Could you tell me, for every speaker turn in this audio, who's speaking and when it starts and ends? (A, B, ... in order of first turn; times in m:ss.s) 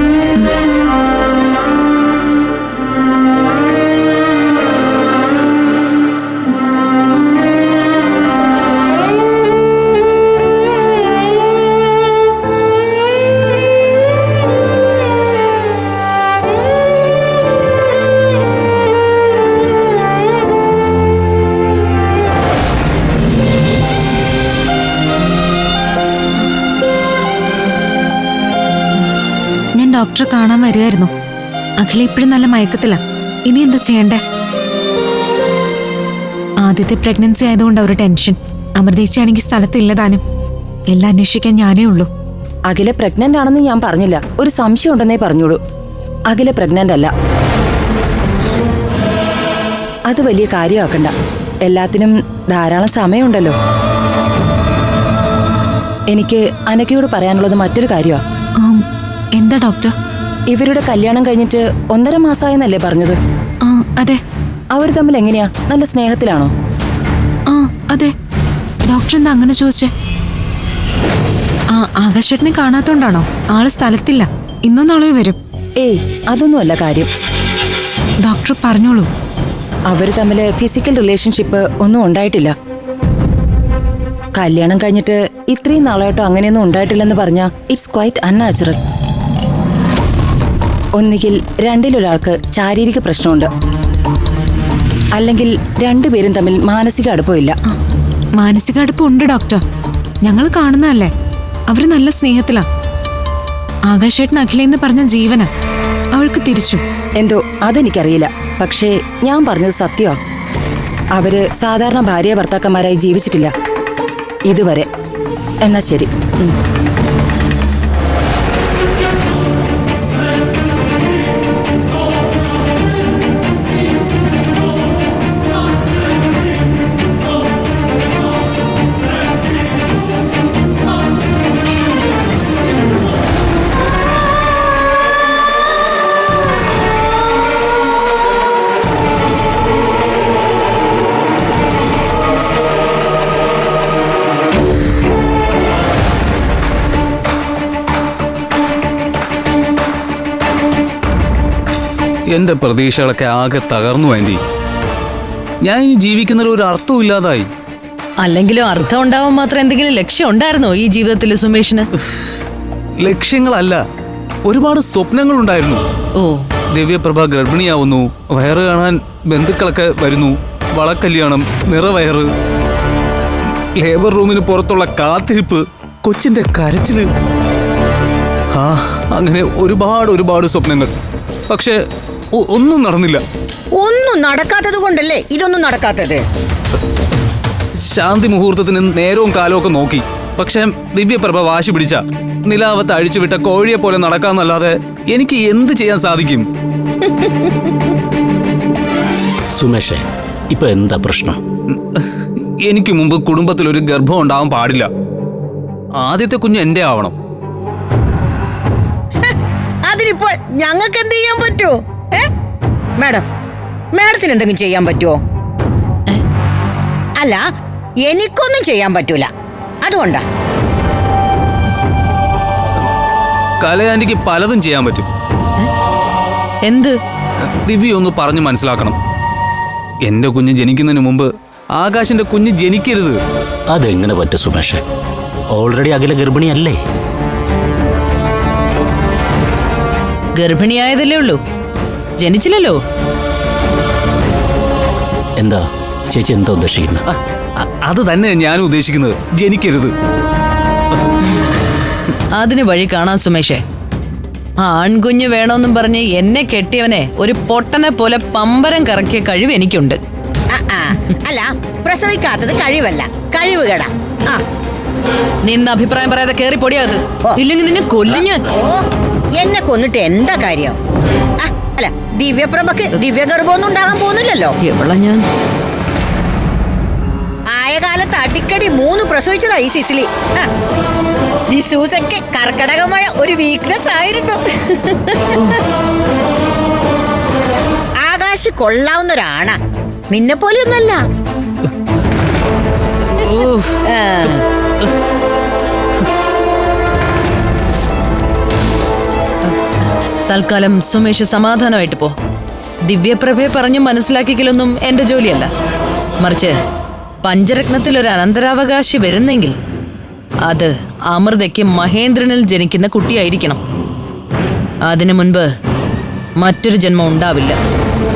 0:29.8-0:31.1 A
0:31.8-0:34.2 A
0:36.6-0:40.2 A
0:40.9-0:42.1 A
0:42.7-0:45.6 B
0:46.3-0:47.1 B
0:50.1-0:53.6 B
0:56.1-0:58.2 B
0:59.4-0:59.9 A
1:00.5-1:03.2 B
1:03.6-1:04.2 A
1:04.7-1:06.5 B
1:07.5-1:08.1 A
1:08.9-1:09.9 A
1:11.7-1:15.4 A
1:15.8-1:17.1 B
1:18.2-1:19.1 A
1:19.9-1:22.5 B
1:24.3-1:28.8 B
1:31.0-1:33.5 B
1:35.1-1:37.6 B
1:38.4-1:39.6 A
1:40.2-1:41.1 A
1:41.7-1:42.6 A
1:43.9-1:45.5 A
1:46.1-1:46.8 A
1:47.2-1:50.2 B
1:51.1-1:53.5 B
1:54.5-1:54.9 B
1:55.6-1:56.5 B
2:32.3-2:34.4 C
2:35.6-2:37.5 C
2:38.2-2:41.9 D
2:42.1-2:42.4 C
2:43.0-2:43.8 C
2:44.4-2:45.8 C
2:46.2-2:46.5 D
2:46.7-2:52.3 C
2:53.8-2:57.1 C
2:58.5-3:00.9 C
3:01.5-3:01.8 C
3:02.4-3:03.2 C
3:03.7-3:06.2 E
3:07.8-3:16.5 C
3:19.5-3:21.4 F
3:21.7-3:22.0 C
3:22.6-3:24.9 C
3:26.0-3:27.1 C
3:29.2-3:32.3 E
3:33.0-3:33.2 E
3:33.9-3:35.2 E
3:37.2-3:37.4 E
3:38.1-3:39.3 E
3:39.8-3:40.2 E
3:43.6-3:45.1 C
3:46.6-3:47.0 D
3:47.6-3:49.0 C
3:50.0-3:53.2 C
3:53.7-3:54.8 F
3:55.5-3:56.8 F
4:00.4-4:01.4 D
4:02.2-4:02.8 D
4:05.4-4:07.0 F
4:07.6-4:09.9 C
4:12.4-4:13.6 D
4:14.6-4:20.0 D
4:20.5-4:24.4 E
4:25.4-4:28.5 D
4:28.1-4:28.8 E
4:29.3-4:30.8 E
4:31.4-4:34.5 E
4:34.6-4:35.2 D
4:37.5-4:40.5 E
4:41.5-4:45.6 E
4:48.0-4:49.6 E
4:50.1-4:51.0 E
4:53.0-4:53.8 C
4:53.8-4:54.4 E
5:00.3-5:02.1 D
5:02.8-5:05.5 D
5:06.2-5:06.6 D
5:07.2-5:09.6 D
5:10.5-5:13.6 D
5:14.8-5:15.5 D
5:16.4-5:17.6 D